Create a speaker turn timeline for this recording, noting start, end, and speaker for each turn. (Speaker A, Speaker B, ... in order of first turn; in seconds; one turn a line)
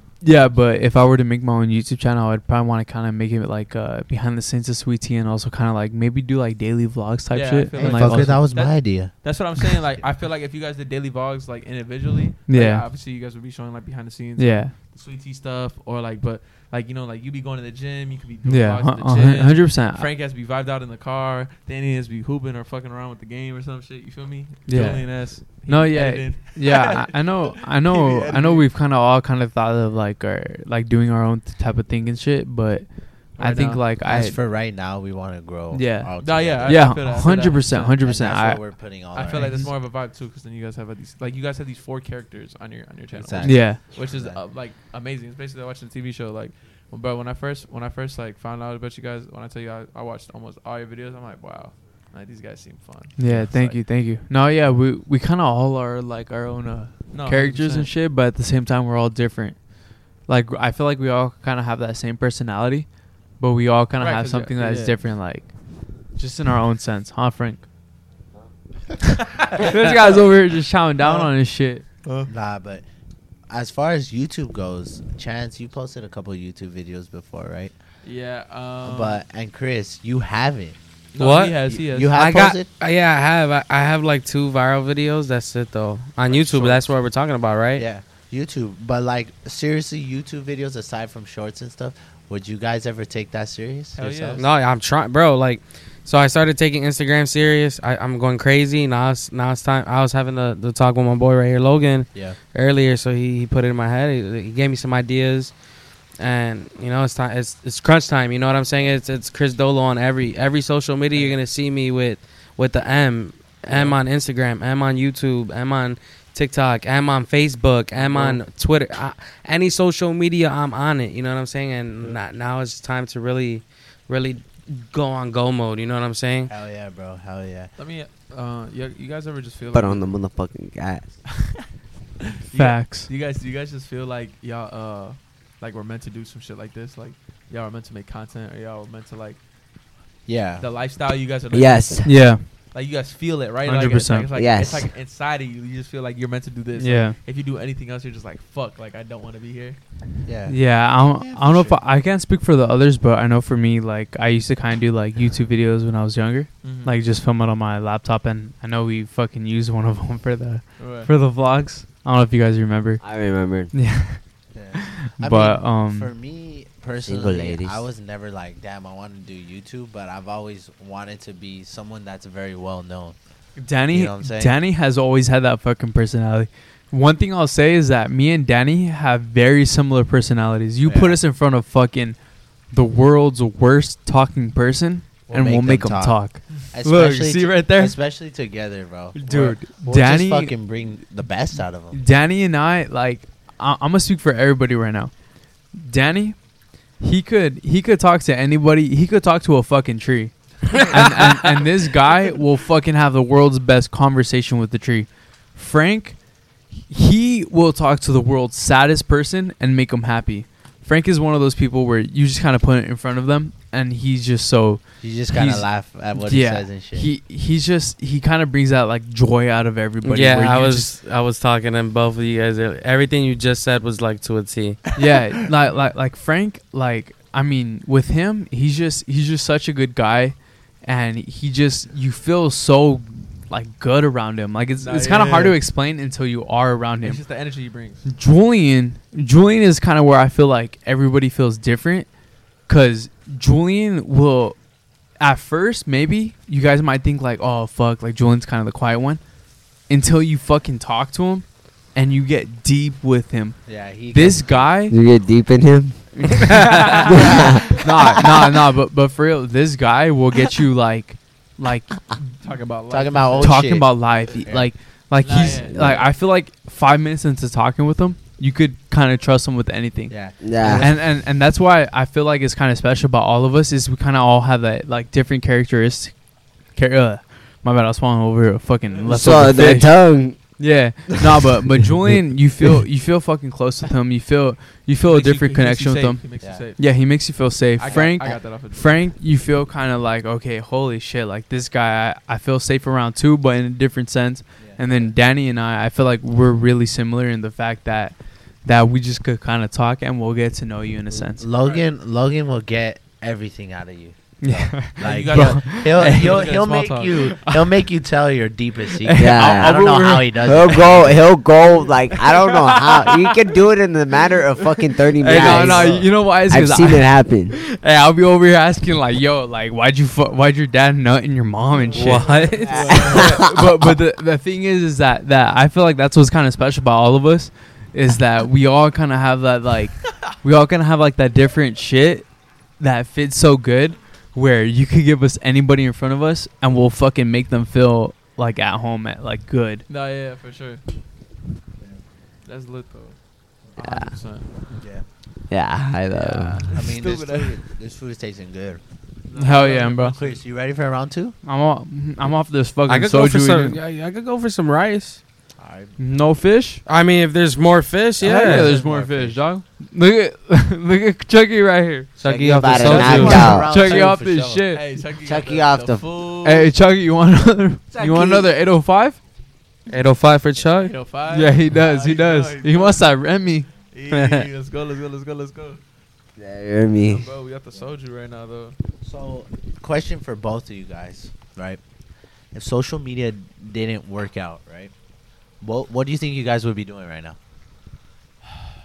Speaker A: 0.2-8.5
Speaker B: 7.3-28.6
Speaker C: 7.8-9.8
Speaker A: 12.5-12.8
Speaker A: 14.4-14.7
Speaker A: 18.4-20.1
Speaker A: 24.6-34.4
Speaker C: 24.8-25.0
Speaker B: 33.4-33.8
Speaker C: 34.0-37.0
Speaker A: 35.7-39.7
Speaker B: 36.2-38.0
Speaker C: 38.0-39.7
Speaker B: 39.1-53.8
Speaker C: 43.1-44.4
Speaker A: 43.4-43.8
Speaker A: 53.2-59.7
Speaker B: 57.1-57.9
Speaker A: 60.2-67.6
Speaker B: 64.0-65.0
Speaker A: 69.5-71.8
Speaker C: 71.0-71.3
Speaker B: 72.0-72.3
Speaker C: 72.3-72.8
Speaker C: 73.5-77.7
Speaker B: 78.0-79.2
Speaker C: 78.8-80.8
Speaker B: 81.1-82.2
Speaker D: 81.2-87.8
Speaker C: 81.7-82.7
Speaker C: 86.2-86.9
Speaker C: 87.8-94.5
Speaker B: 94.0-94.4
Speaker D: 94.3-105.5
Speaker D: 106.2-126.5
Speaker C: 111.1-111.4
Speaker C: 113.7-114.0
Speaker C: 118.0-118.4
Speaker C: 126.5-127.7
Speaker B: 127.8-130.2
Speaker E: 129.7-131.3
Speaker B: 132.5-139.4
Speaker A: 132.5-133.1
Speaker C: 140.2-140.6
Speaker B: 140.6-149.8
Speaker E: 141.5-142.3
Speaker A: 142.0-142.5
Speaker A: 143.6-144.3
Speaker E: 144.3-144.9
Speaker A: 146.8-147.2
Speaker C: 150.2-151.8
Speaker A: 150.5-163.0
Speaker B: 156.6-157.0
Speaker B: 160.8-161.1
Speaker E: 163.0-163.7
Speaker A: 163.7-164.2
Speaker C: 164.5-173.2
Speaker A: 164.7-166.1
Speaker E: 167.0-167.8
Speaker A: 173.6-182.2
Speaker C: 173.9-174.6
Speaker C: 180.8-181.2
Speaker A: 182.7-188.0
Speaker C: 185.3-192.0
Speaker A: 189.1-190.5
Speaker A: 191.5-195.1
Speaker A: 195.7-196.4
Speaker A: 197.0-206.2
Speaker A: 206.7-220.9
Speaker C: 215.0-217.1
Speaker D: 220.0-224.8
Speaker A: 225.0-237.3
Speaker B: 234.8-235.6
Speaker B: 237.0-238.1
Speaker A: 238.0-242.1
Speaker A: 242.7-244.6
Speaker A: 245.2-249.2
Speaker A: 249.9-253.6
Speaker C: 253.7-254.6
Speaker A: 254.1-254.9
Speaker E: 254.9-258.4
Speaker A: 256.1-262.3
Speaker B: 262.4-263.6
Speaker C: 262.9-264.7
Speaker A: 263.4-286.2
Speaker B: 265.2-266.0
Speaker E: 265.7-266.1
Speaker C: 270.1-271.0
Speaker E: 270.4-270.9
Speaker E: 279.1-281.4
Speaker B: 285.0-286.9
Speaker A: 286.8-301.4
Speaker B: 287.8-289.1
Speaker C: 294.6-295.1
Speaker C: 301.4-311.2
Speaker A: 304.4-306.5
Speaker B: 305.0-307.3
Speaker A: 307.4-307.7
Speaker A: 309.0-310.9
Speaker E: 309.2-309.8
Speaker E: 310.4-317.6
Speaker A: 312.1-313.4
Speaker A: 315.1-339.8
Speaker D: 321.9-322.8
Speaker E: 321.9-323.9
Speaker B: 322.3-323.3
Speaker B: 339.9-340.8
Speaker B: 342.4-343.2
Speaker B: 343.7-344.5
Speaker E: 343.8-344.2
Speaker C: 344.7-345.0
Speaker E: 345.5-346.8
Speaker B: 346.1-347.6
Speaker C: 346.7-348.8
Speaker B: 349.3-350.4
Speaker A: 349.4-350.2
Speaker C: 349.4-351.4
Speaker A: 351.4-353.8
Speaker D: 352.9-355.2
Speaker C: 355.6-355.9
Speaker A: 356.0-356.8
Speaker D: 356.9-358.7
Speaker A: 358.2-362.1
Speaker C: 358.3-359.4
Speaker D: 362.2-363.4
Speaker E: 362.2-363.7
Speaker C: 362.6-364.6
Speaker A: 362.8-365.1
Speaker B: 364.7-366.7
Speaker E: 365.2-366.1
Speaker A: 366.4-369.2
Speaker E: 367.9-368.5
Speaker D: 369.9-370.9
Speaker B: 370.6-373.0
Speaker A: 371.3-373.7
Speaker B: 373.9-375.8
Speaker D: 374.1-374.4
Speaker E: 376.4-377.3
Speaker B: 377.1-378.8
Speaker C: 379.0-381.8
Speaker C: 382.5-384.9
Speaker C: 385.6-387.4